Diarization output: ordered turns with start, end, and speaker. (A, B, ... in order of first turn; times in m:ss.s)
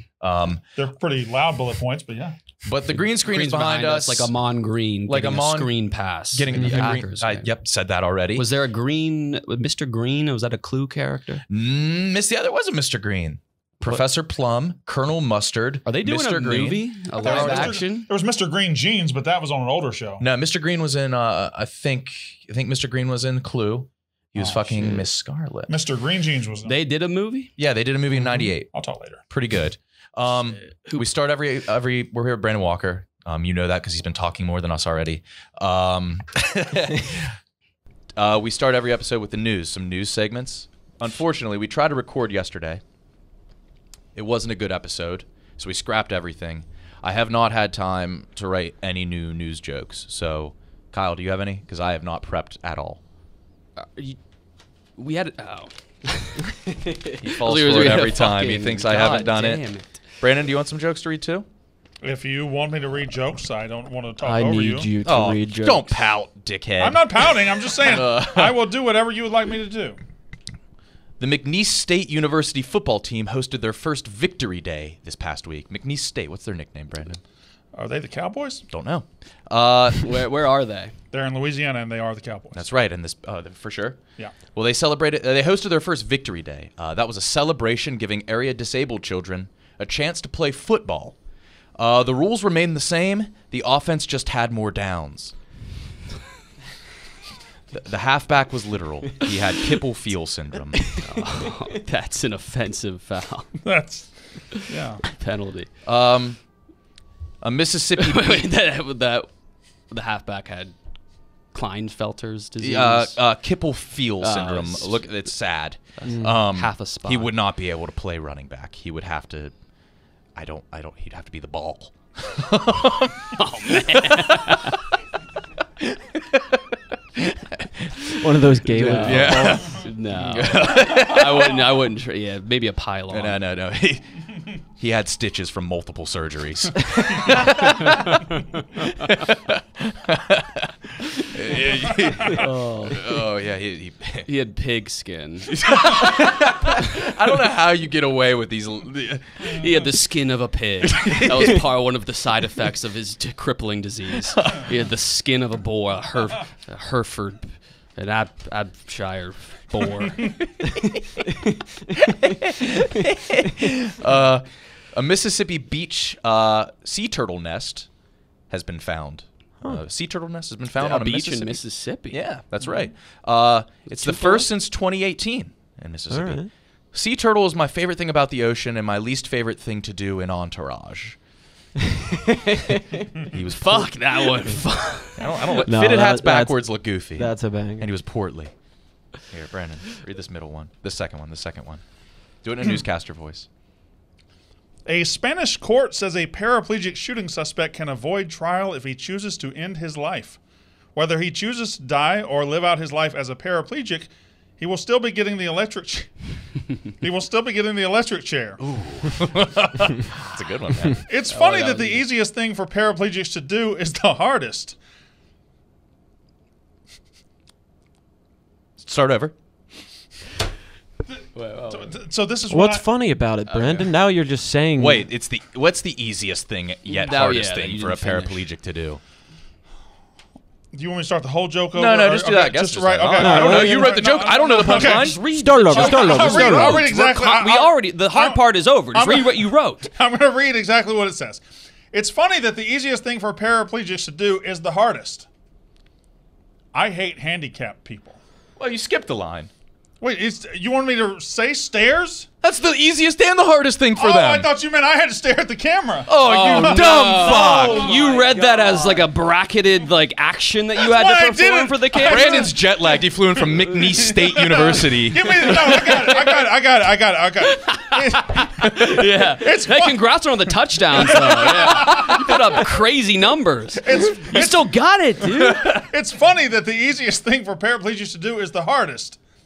0:00.2-0:00.6 A
0:00.8-0:02.4 B
0:02.6-0:04.3 A
0:03.2-0:07.5 C
0:05.1-0:05.8 A
0:06.3-0:08.5 A
0:06.6-0:06.9 D
0:08.4-0:11.4 C
0:11.5-0:17.7 A
0:15.8-0:18.1 C
0:17.2-0:20.2 B
0:20.2-0:25.7 A
0:24.4-0:25.0 B
0:25.7-0:26.7 B
0:26.7-0:27.5 C
0:27.6-0:37.3 A
0:28.1-0:29.2 B
0:30.6-0:31.0 C
0:38.2-0:42.8 A
0:44.1-0:53.0 A
0:53.8-0:54.2 C
0:55.0-1:00.0 C
0:57.2-0:59.7 A
1:00.2-1:01.4 A
1:02.0-1:04.9 B
1:04.2-1:06.0 D
1:05.0-1:08.7 A
1:06.8-1:10.0 B
1:11.2-1:17.2 A
1:17.7-1:18.7 B
1:18.7-1:20.2 A
1:20.0-1:20.9 C
1:21.1-1:22.6 B
1:22.5-1:31.2 A
1:31.8-1:35.3 A
1:37.7-1:41.0 A
1:40.8-1:43.6 C
1:43.6-1:45.0 B
1:45.1-1:45.7 C
1:45.8-1:46.4 A
1:47.4-1:48.5 A
1:48.0-1:49.3 C
1:49.9-1:50.8 C
1:51.5-1:53.2 C
1:52.6-1:59.5 A
1:54.2-1:55.0 C
1:56.0-1:57.3 C
2:00.3-2:04.6 A
2:03.3-2:04.8 C
2:05.8-2:11.6 A
2:08.1-2:09.8 D
2:08.8-2:13.4 C
2:13.1-2:24.3 A
2:17.6-2:19.2 C
2:22.1-2:22.4 B
2:22.2-2:23.0 C
2:24.3-2:25.6 C
2:25.5-2:29.6 A
2:29.4-2:40.8 C
2:30.9-2:31.6 A
2:34.4-2:34.6 A
2:42.0-2:47.9 A
2:48.5-3:01.2 A
2:50.8-2:52.2 C
2:53.9-2:54.5 C
2:56.1-2:56.5 D
3:03.3-3:04.4 A
3:03.6-3:05.6 C
3:05.2-3:08.5 A
3:05.6-3:06.6 D
3:07.2-3:07.9 D
3:09.2-3:11.8 A
3:12.4-3:13.5 A
3:14.8-3:20.4 B
3:20.9-3:28.7 B
3:28.6-3:31.0 A
3:31.0-3:34.8 B
3:31.2-3:32.1 C
3:38.8-3:39.3 A
3:41.1-3:42.9 B
3:41.3-3:41.9 C
3:42.5-3:45.1 D
3:43.5-3:43.8 A
3:43.6-3:43.8 C
3:44.8-3:49.0 A
3:46.9-3:48.4 C
3:50.7-4:05.3 B
3:51.7-3:55.2 A
3:53.2-3:54.1 D
3:54.4-3:59.9 C
3:55.3-3:56.9 D
4:06.7-4:08.2 B
4:08.6-4:09.5 A
4:10.0-4:12.3 B
4:12.4-4:14.5 A
4:14.0-4:18.2 B
4:16.1-4:19.0 A
4:16.2-4:22.6 C
4:20.8-4:30.0 B
4:22.0-4:26.1 A
4:26.0-4:26.3 C
4:27.5-4:35.7 C
4:30.9-4:32.6 B
4:33.8-4:34.8 B
4:35.2-4:35.9 A
4:35.7-4:39.2 B